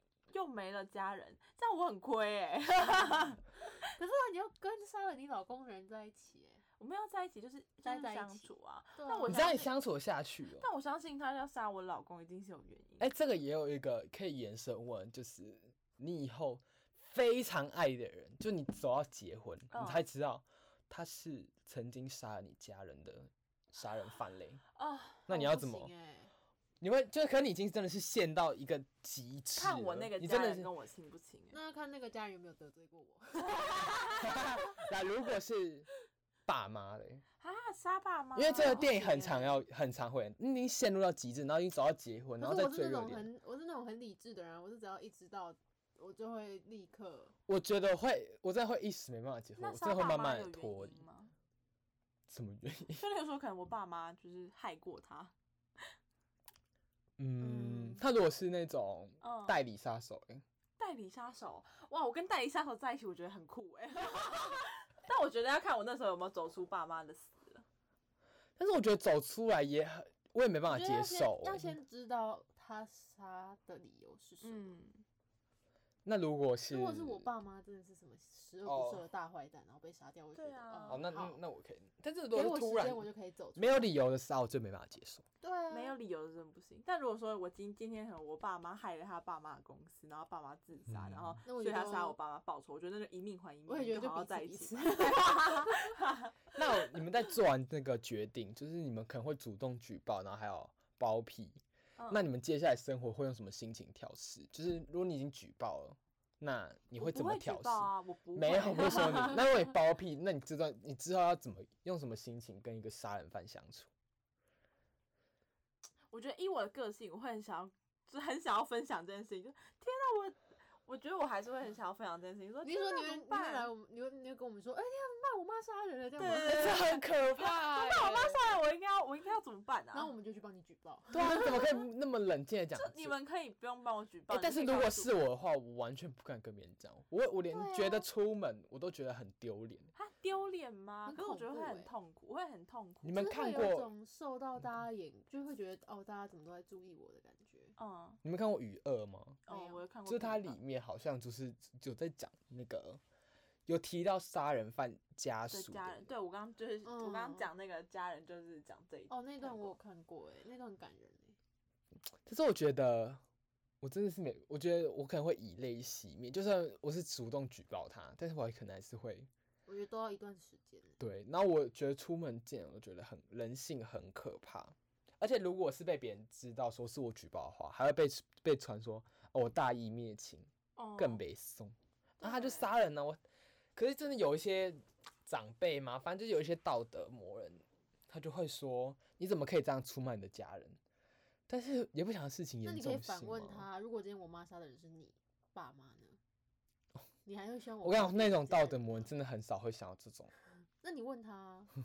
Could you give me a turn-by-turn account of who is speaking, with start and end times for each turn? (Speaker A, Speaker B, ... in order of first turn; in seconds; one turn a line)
Speaker A: 0.3-3.6
Speaker B: 3.0-6.6
Speaker A: 6.8-9.7
Speaker B: 7.8-9.6
Speaker C: 9.3-10.7
Speaker A: 10.6-13.1
Speaker C: 13.0-24.6
Speaker A: 19.7-20.0
Speaker A: 24.7-25.2
Speaker C: 25.3-25.9
Speaker B: 25.3-26.3
Speaker C: 26.8-30.7
Speaker A: 29.6-31.6
Speaker B: 31.5-34.1
Speaker A: 33.5-34.1
Speaker C: 34.2-35.9
Speaker C: 36.5-37.2
Speaker A: 37.4-39.5
Speaker C: 38.4-43.3
Speaker B: 38.5-39.4
Speaker B: 42.4-47.3
Speaker C: 47.5-51.0
Speaker A: 49.6-51.3
Speaker C: 52.3-53.0
Speaker A: 53.0-55.8
Speaker C: 57.2-60.4
Speaker A: 57.4-58.0
Speaker A: 59.2-59.6
Speaker A: 60.8-67.6
Speaker C: 68.6-71.8
Speaker A: 70.7-71.5
Speaker B: 71.2-74.8
Speaker A: 74.4-75.0
Speaker C: 76.0-77.3
Speaker B: 76.7-81.4
Speaker C: 78.6-79.0
Speaker A: 80.3-81.0
Speaker C: 80.9-85.2
Speaker B: 82.3-83.9
Speaker B: 85.4-86.0
Speaker A: 85.7-96.6
Speaker C: 90.9-91.4
Speaker B: 91.4-92.2
Speaker B: 93.7-95.9
Speaker C: 96.5-113.9
Speaker A: 102.0-102.2
Speaker A: 107.0-109.5
Speaker A: 116.1-123.7
Speaker B: 122.6-127.0
Speaker A: 126.2-130.1
Speaker C: 126.2-128.4
Speaker B: 129.9-131.7
Speaker C: 131.1-133.1
Speaker A: 132.8-135.2
Speaker C: 134.3-139.9
Speaker B: 137.5-138.1
Speaker A: 139.9-143.3
Speaker B: 141.1-141.9
Speaker C: 143.0-143.9
Speaker B: 143.1-147.8
Speaker A: 147.8-148.2
Speaker C: 148.2-149.4
Speaker A: 149.4-150.6
Speaker B: 149.5-149.8
Speaker C: 150.1-153.0
Speaker C: 153.7-156.1
Speaker A: 155.5-159.8
Speaker B: 156.8-157.5
Speaker B: 159.1-161.3
Speaker C: 162.2-163.2
Speaker C: 163.8-169.3
Speaker B: 169.7-171.0
Speaker C: 171.0-183.2
Speaker A: 180.8-181.2
Speaker A: 182.2-182.7
Speaker C: 183.7-190.8
Speaker C: 191.5-193.7
Speaker B: 192.6-196.2
Speaker B: 197.2-199.0
Speaker C: 197.8-200.3
Speaker B: 200.8-201.7